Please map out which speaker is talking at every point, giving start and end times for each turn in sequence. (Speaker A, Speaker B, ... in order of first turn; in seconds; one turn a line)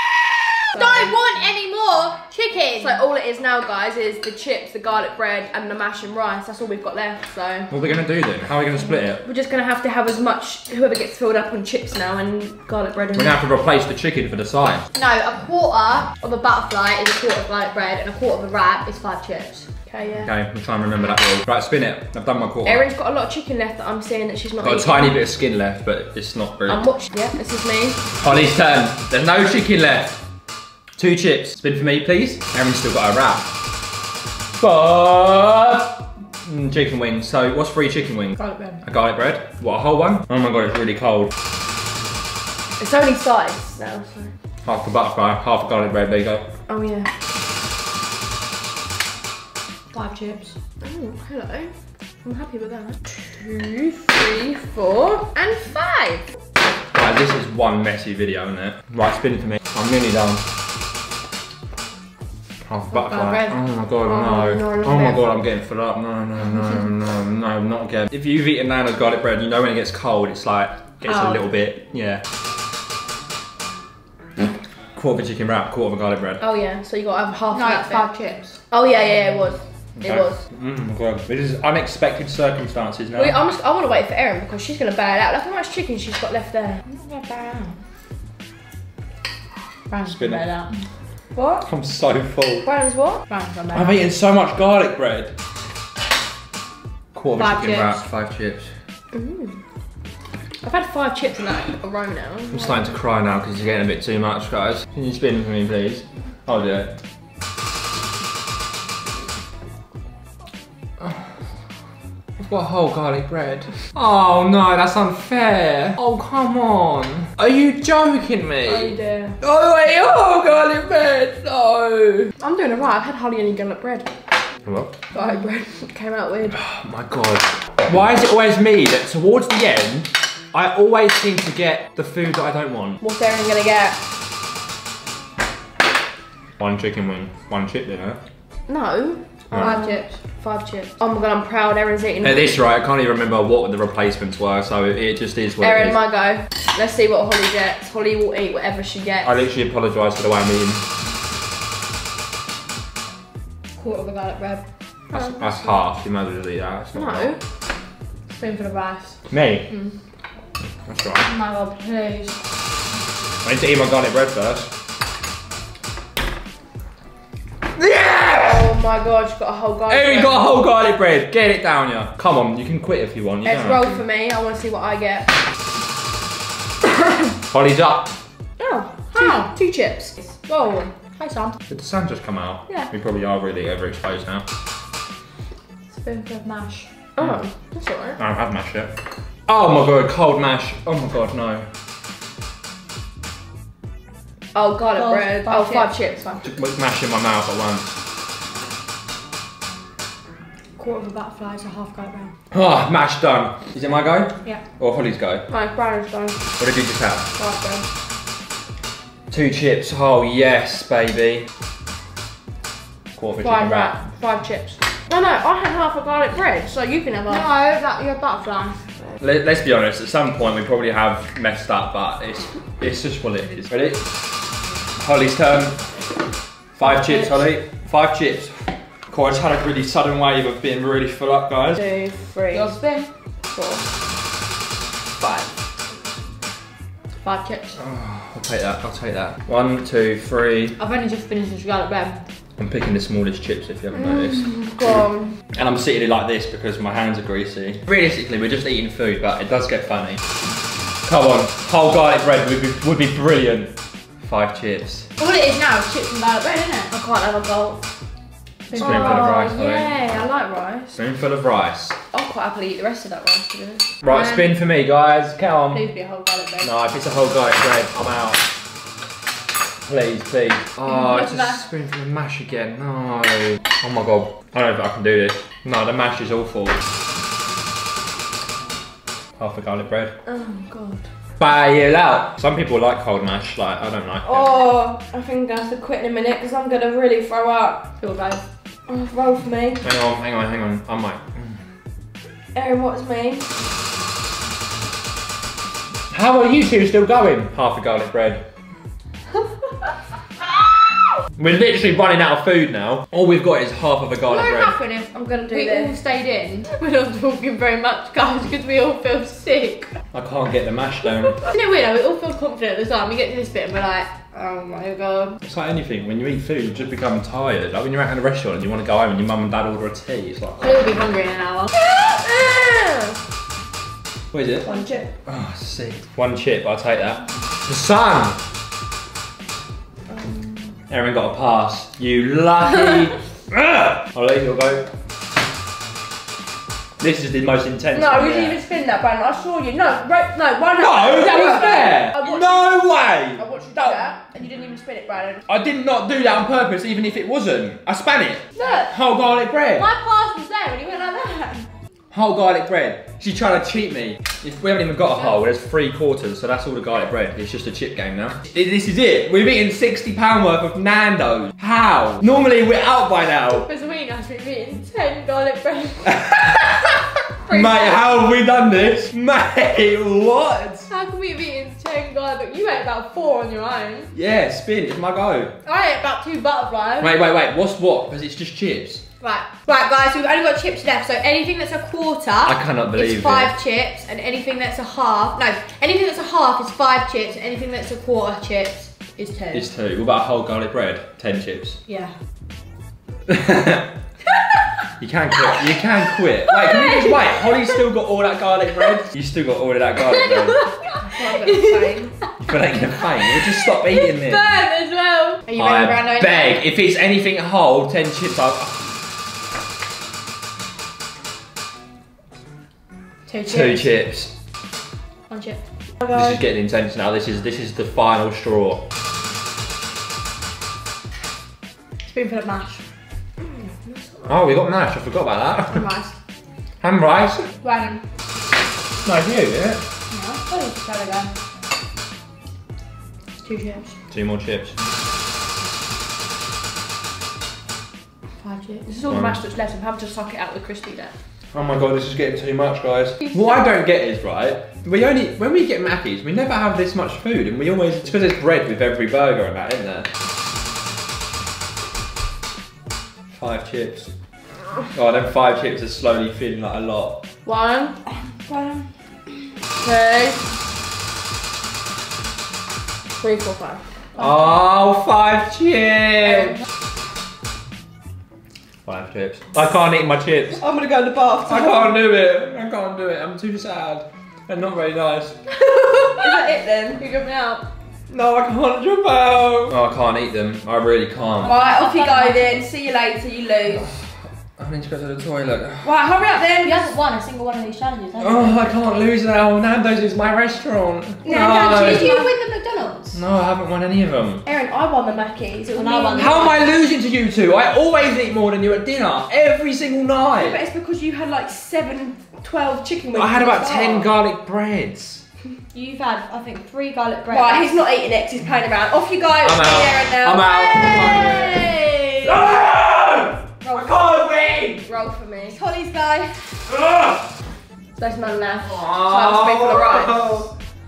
Speaker A: 0.7-3.0
Speaker B: 0.7-1.1
Speaker B: 2.8-7.7
Speaker C: 7.7-9.2
Speaker B: 9.2-13.3
Speaker C: 13.2-14.8
Speaker A: 14.9-19.7
Speaker B: 19.9-20.3
Speaker C: 20.2-22.9
Speaker B: 22.6-25.2
Speaker C: 24.6-26.8
Speaker B: 26.7-28.0
Speaker C: 28.2-30.2
Speaker C: 31.0-33.4
Speaker C: 34.6-41.3
Speaker A: 38.4-38.8
Speaker B: 42.8-44.3
Speaker C: 44.6-46.5
Speaker B: 46.7-47.1
Speaker A: 49.9-50.5
Speaker B: 50.8-51.7
Speaker B: 52.2-56.2
Speaker C: 56.9-60.4
Speaker C: 62.6-72.2
Speaker A: 62.9-63.5
Speaker B: 64.0-65.3
Speaker A: 71.0-71.4
Speaker C: 74.9-76.4
Speaker B: 76.4-78.0
Speaker A: 77.5-78.5
Speaker B: 78.7-80.4
Speaker C: 80.0-83.4
Speaker B: 83.1-86.8
Speaker A: 86.8-87.8
Speaker A: 89.9-90.7
Speaker C: 90.0-90.4
Speaker B: 91.3-91.6
Speaker C: 91.6-92.7
Speaker B: 92.6-93.2
Speaker A: 93.3-94.0
Speaker C: 93.7-95.3
Speaker C: 97.1-98.7
Speaker A: 97.4-98.0
Speaker B: 99.1-99.6
Speaker B: 100.6-102.8
Speaker C: 102.5-107.0
Speaker C: 111.0-111.3
Speaker C: 112.4-122.3
Speaker B: 118.6-119.4
Speaker B: 122.4-124.1
Speaker C: 124.6-124.9
Speaker B: 125.1-126.6
Speaker C: 126.5-133.0
Speaker B: 133.0-134.0
Speaker C: 136.6-138.2
Speaker B: 138.7-142.6
Speaker A: 139.6-140.1
Speaker C: 142.2-146.0
Speaker B: 145.6-149.3
Speaker C: 149.2-150.8
Speaker A: 153.8-154.6
Speaker B: 155.1-155.5
Speaker C: 155.1-157.3
Speaker B: 156.9-157.4
Speaker A: 158.3-159.2
Speaker C: 159.3-159.7
Speaker C: 160.8-161.2
Speaker A: 161.2-162.4
Speaker C: 163.4-164.7
Speaker C: 167.8-168.7
Speaker B: 168.3-170.5
Speaker C: 169.9-174.0
Speaker B: 173.4-175.3
Speaker C: 177.5-178.1
Speaker B: 178.6-180.2
Speaker A: 179.1-179.5
Speaker A: 180.4-181.6
Speaker C: 181.7-184.4
Speaker A: 185.9-186.9
Speaker B: 187.2-188.2
Speaker C: 188.2-188.9
Speaker C: 189.5-191.7
Speaker B: 194.5-196.4
Speaker A: 194.9-195.9
Speaker C: 196.4-197.9
Speaker A: 200.8-202.3
Speaker C: 202.5-205.4
Speaker B: 205.5-206.4
Speaker C: 206.6-207.2
Speaker B: 207.4-207.8
Speaker C: 209.3-211.5
Speaker C: 213.2-213.9
Speaker B: 213.4-217.5
Speaker A: 217.3-218.8
Speaker C: 219.2-224.0
Speaker C: 225.0-225.8
Speaker C: 226.8-231.8
Speaker B: 231.7-232.8
Speaker A: 232.5-233.1
Speaker B: 233.5-233.8
Speaker B: 235.2-235.5
Speaker A: 237.2-237.8
Speaker C: 237.8-240.8
Speaker A: 240.8-242.2
Speaker C: 242.6-245.0
Speaker B: 243.9-245.3
Speaker C: 245.5-250.2
Speaker C: 251.1-255.1
Speaker A: 255.2-256.9
Speaker B: 256.9-257.8
Speaker A: 258.7-259.3
Speaker B: 258.7-261.0
Speaker C: 258.8-259.9
Speaker C: 261.0-262.0
Speaker B: 262.1-263.9
Speaker C: 264.0-265.8
Speaker A: 264.1-264.5
Speaker A: 265.7-266.7
Speaker C: 266.6-268.4
Speaker C: 269.9-276.8
Speaker A: 270.9-271.6
Speaker C: 279.4-280.1
Speaker B: 280.2-281.0
Speaker C: 281.4-284.6
Speaker B: 284.2-287.8
Speaker A: 288.0-288.4
Speaker B: 288.9-289.8
Speaker C: 289.8-291.6
Speaker B: 292.5-293.4
Speaker C: 296.1-298.4
Speaker C: 301.4-304.7
Speaker A: 304.3-309.9
Speaker B: 305.1-305.9
Speaker C: 310.1-311.4
Speaker A: 311.4-315.4
Speaker C: 315.4-320.9
Speaker A: 320.6-321.7
Speaker B: 321.7-323.2
Speaker C: 324.3-324.7
Speaker B: 324.6-325.1
Speaker C: 325.2-328.4
Speaker B: 330.1-330.7
Speaker C: 330.9-334.9
Speaker C: 337.0-338.6
Speaker B: 337.9-342.5
Speaker C: 340.8-343.4
Speaker B: 343.4-345.4
Speaker C: 345.5-349.9
Speaker B: 348.6-348.9
Speaker A: 348.6-348.8
Speaker A: 349.8-351.7
Speaker C: 352.1-363.6
Speaker A: 363.5-366.2
Speaker C: 366.0-370.9
Speaker A: 367.5-368.0
Speaker A: 370.9-374.1
Speaker C: 374.1-375.5
Speaker A: 375.6-377.1
Speaker C: 377.0-379.0
Speaker A: 379.2-389.6
Speaker C: 382.4-383.5
Speaker C: 389.5-391.8
Speaker A: 391.9-392.1
Speaker C: 393.3-393.9
Speaker C: 395.0-400.6
Speaker A: 400.3-401.9
Speaker B: 400.9-402.1
Speaker C: 402.4-404.5
Speaker A: 403.2-406.6
Speaker C: 405.6-408.8
Speaker A: 413.3-413.9
Speaker C: 413.4-414.3
Speaker A: 415.3-415.6
Speaker C: 416.1-418.8
Speaker A: 422.0-422.8
Speaker B: 423.4-424.3
Speaker C: 424.3-425.9
Speaker A: 425.7-426.1
Speaker C: 426.8-427.5
Speaker A: 427.6-428.0
Speaker C: 429.0-429.8
Speaker A: 430.1-431.3
Speaker A: 433.4-433.9
Speaker C: 434.1-434.7
Speaker A: 438.4-438.9
Speaker B: 438.8-441.1
Speaker C: 439.1-439.4
Speaker C: 441.5-450.1
Speaker C: 453.3-454.1
Speaker C: 454.9-457.2
Speaker B: 457.4-458.0
Speaker A: 458.3-458.9
Speaker B: 459.8-460.4
Speaker B: 463.2-463.8
Speaker C: 464.2-466.6
Speaker C: 468.8-470.6
Speaker B: 470.6-471.9
Speaker C: 471.5-475.4
Speaker A: 475.6-476.4
Speaker B: 476.1-477.0
Speaker A: 477.0-477.6
Speaker C: 478.1-481.6
Speaker A: 481.4-482.6
Speaker B: 481.4-483.9
Speaker C: 484.6-485.9
Speaker B: 485.8-486.9
Speaker A: 486.6-489.0
Speaker C: 488.2-492.2
Speaker B: 491.2-492.3
Speaker A: 491.2-493.2
Speaker C: 493.1-494.4
Speaker B: 494.4-496.6
Speaker A: 495.7-496.6
Speaker C: 496.1-500.6
Speaker B: 500.4-504.1
Speaker C: 503.1-505.2
Speaker A: 505.7-507.8
Speaker B: 507.3-511.1
Speaker C: 509.4-511.7
Speaker A: 510.7-512.4
Speaker C: 512.2-514.8
Speaker A: 513.6-513.9
Speaker B: 514.9-515.6
Speaker A: 515.5-516.6
Speaker C: 516.7-517.3
Speaker B: 518.0-520.5
Speaker A: 518.0-518.6
Speaker C: 518.6-520.5